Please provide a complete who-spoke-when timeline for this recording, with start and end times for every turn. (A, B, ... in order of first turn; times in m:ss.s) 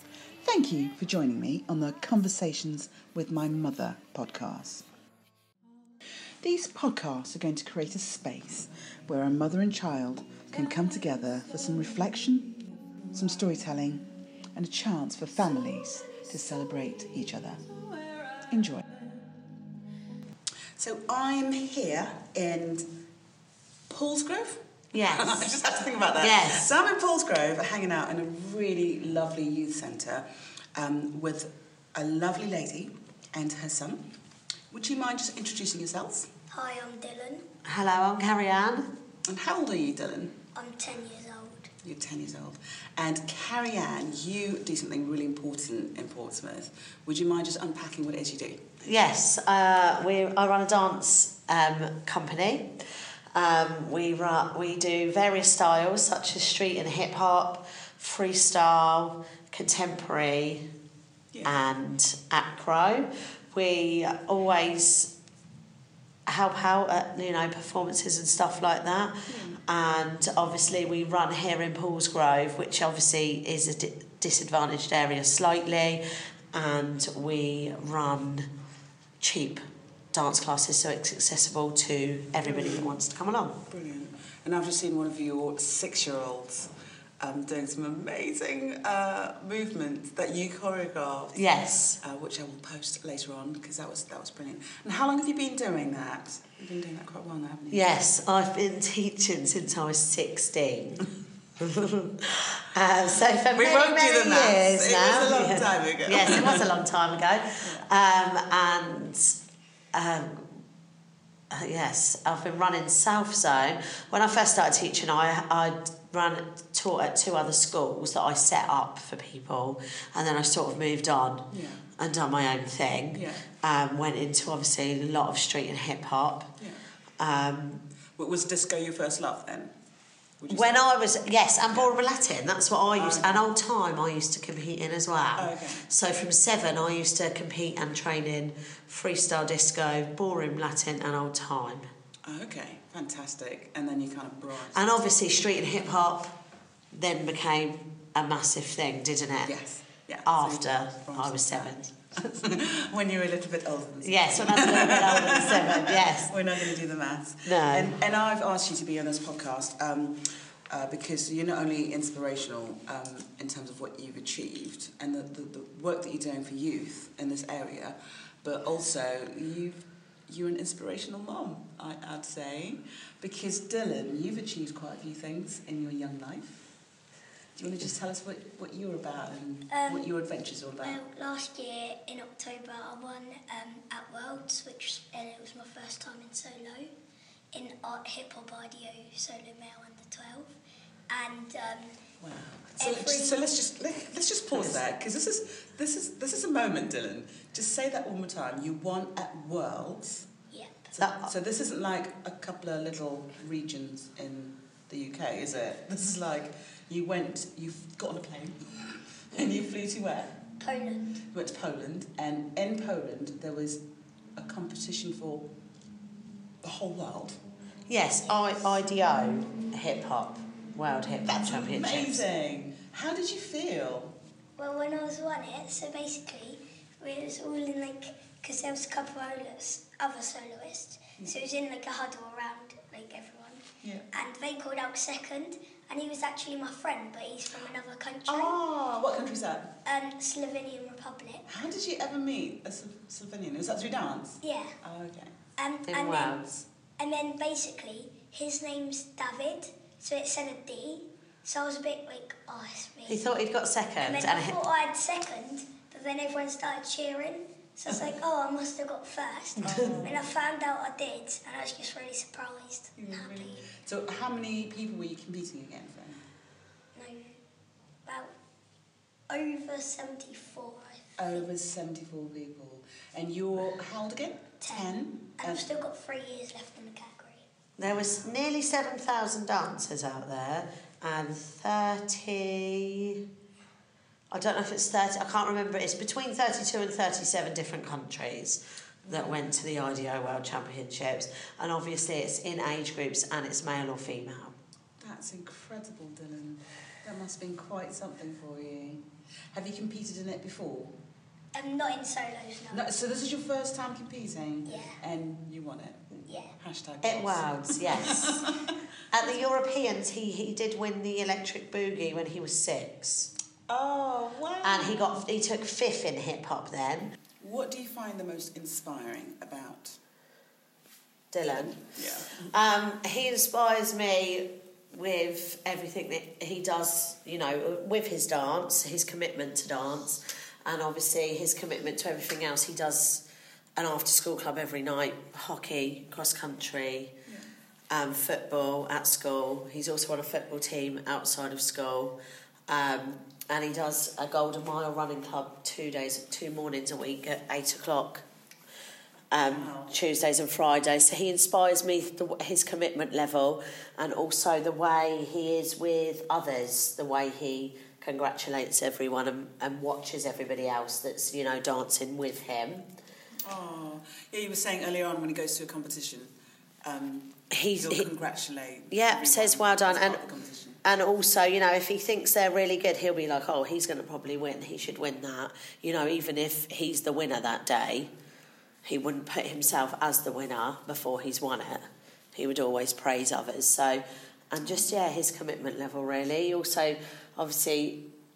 0:00.4-0:04.9 A
0:06.4-0:17.6 A
0:18.5-0:19.1 A
0:20.8-0:22.8 A
0:23.9-0:30.2 A
0:24.9-0:25.5 B
0:26.2-0:26.7 B
0:30.8-0:34.0 A
0:34.7-0:36.3 A
0:36.5-0:37.4 C
0:37.6-0:38.9 B
0:39.3-0:40.3 A
0:40.5-0:41.7 C
0:41.8-0:48.6 A
0:48.8-0:52.7 B
0:53.3-1:00.6 B
1:01.4-1:05.1 B
1:06.3-1:18.5 B
1:09.3-1:09.6 A
1:19.2-1:19.6 B
1:20.1-1:23.6 B
1:22.4-1:23.0 A
1:23.7-1:37.9 A
1:31.3-1:32.0 B
1:37.7-1:49.4 B
1:43.5-1:46.7 A
1:47.6-1:47.9 A
1:49.9-1:50.6 B
1:51.5-2:06.5 B
2:01.5-2:01.9 A
2:03.1-2:03.5 A
2:07.2-2:07.8 B
2:08.2-2:09.7 A
2:10.4-2:10.8 A
2:10.5-2:21.9 B
2:11.7-2:12.0 A
2:12.9-2:13.4 A
2:15.4-2:15.9 A
2:22.2-2:25.0 A
2:24.7-2:26.3 B
2:26.9-2:29.5 B
2:29.4-2:56.6 A
2:30.2-2:32.3 B
2:34.0-2:36.4 B
2:37.4-2:38.0 B
2:57.6-3:01.0 A
2:59.7-3:00.1 C
3:00.8-3:06.9 C
3:07.5-3:10.5 C
3:11.1-3:12.0 C
3:12.2-3:20.3 A
3:12.8-3:13.4 C
3:20.5-3:20.9 C
3:20.9-3:30.4 A
3:21.0-3:21.3 B
3:30.6-3:31.2 C
3:31.3-3:33.8 A
3:34.4-3:35.5 A
3:36.6-3:37.4 A
3:37.9-3:42.2 B
3:38.4-3:38.7 C
3:41.2-3:44.1 A
3:44.6-3:58.6 C
3:53.8-3:54.1 A
3:58.3-3:59.7 A
3:59.8-4:01.4 C
4:01.5-4:05.3 A
4:04.4-4:04.7 C
4:05.6-4:06.4 C
4:05.9-4:06.4 B
4:06.3-4:06.6 A
4:07.0-4:13.3 C
4:13.1-4:14.6 B
4:14.0-4:23.6 C
4:19.6-4:20.2 A
4:19.7-4:19.9 B
4:23.0-4:26.2 A
4:26.9-4:27.4 C
4:28.0-4:28.3 C
4:29.3-4:31.4 C
4:31.2-4:35.6 A
4:34.6-4:37.4 C
4:37.8-4:43.2 B
4:37.8-4:38.1 A
4:44.3-4:54.5 B
4:49.0-4:49.6 A
4:55.0-5:00.9 A
5:01.5-5:02.9 C
5:02.7-5:08.5 A
5:04.6-5:05.0 C
5:06.2-5:06.5 C
5:07.0-5:08.4 B
5:09.1-5:13.3 B
5:13.7-5:15.1 A
5:14.6-5:17.1 B
5:17.4-5:20.0 A
5:21.3-5:33.2 B
5:21.5-5:22.4 A
5:33.8-5:37.2 B
5:37.9-5:42.2 B
5:42.7-5:48.2 B
5:49.3-6:02.9 B
5:49.4-5:50.0 A
6:03.4-6:06.3 A
6:06.8-6:10.8 A
6:07.5-6:08.1 B
6:08.9-6:10.2 B
6:10.8-6:18.1 B
6:18.8-6:28.0 B